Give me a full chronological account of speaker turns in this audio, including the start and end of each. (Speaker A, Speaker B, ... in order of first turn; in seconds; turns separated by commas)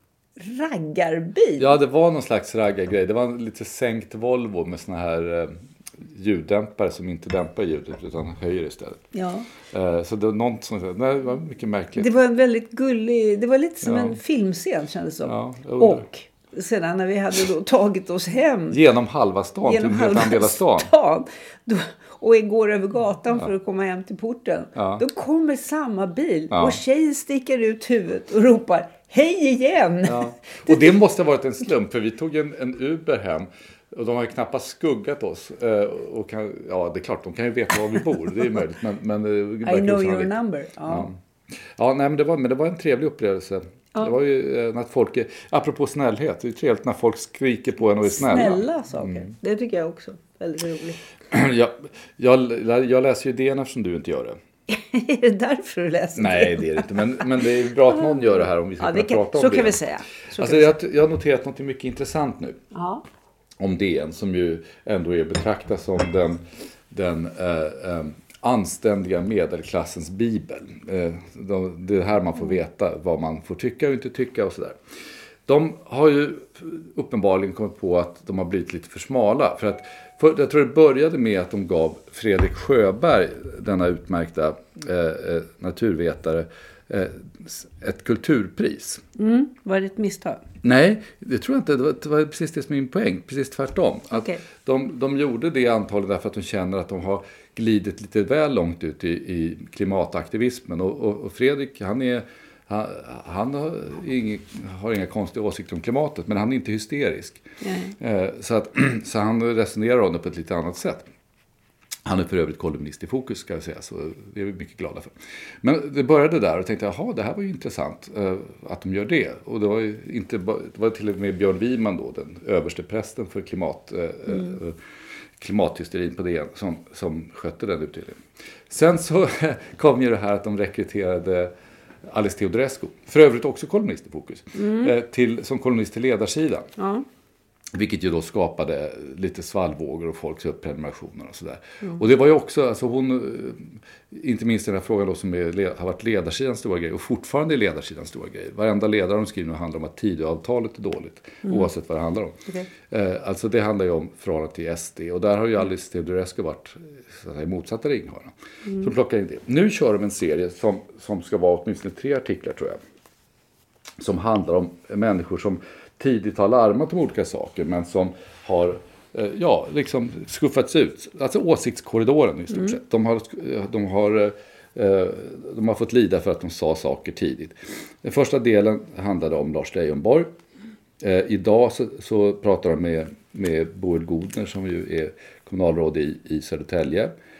Speaker A: 0.4-1.8, Speaker B: 1.6-9.1, Speaker A: 9.1-9.5, Speaker B: 9.7-12.1, Speaker A: 12.0-18.8, Speaker B: 13.8-14.2, Speaker B: 15.2-16.1, Speaker B: 18.7-20.9, Speaker A: 19.6-30.9, Speaker B: 24.8-25.0, Speaker B: 26.5-26.8, Speaker B: 30.1-40.3, Speaker A: 39.6-41.1, Speaker B: 40.9-41.2, Speaker B: 41.7-49.3, Speaker A: 48.0-51.0, Speaker B: 51.3-54.4, Speaker A: 54.7-57.2, Speaker B: 56.2-59.8, Speaker A: 58.8-60.8, Speaker B: 60.4-62.6, Speaker A: 62.7-63.0, Speaker B: 63.6-74.8, Speaker B: 75.5-89.0, Speaker A: 89.2-90.4, Speaker B: 90.6-107.4, Speaker A: 94.1-94.4, Speaker A: 107.6-108.0, Speaker B: 108.0-111.1, Speaker B: 112.0-124.8, Speaker B: 125.4-131.5, Speaker B: 132.1-136.7, Speaker A: 134.6-134.9, Speaker A: 136.8-137.1, Speaker B: 137.7-162.8, Speaker B: 164.0-180.3, Speaker B: 181.0-187.2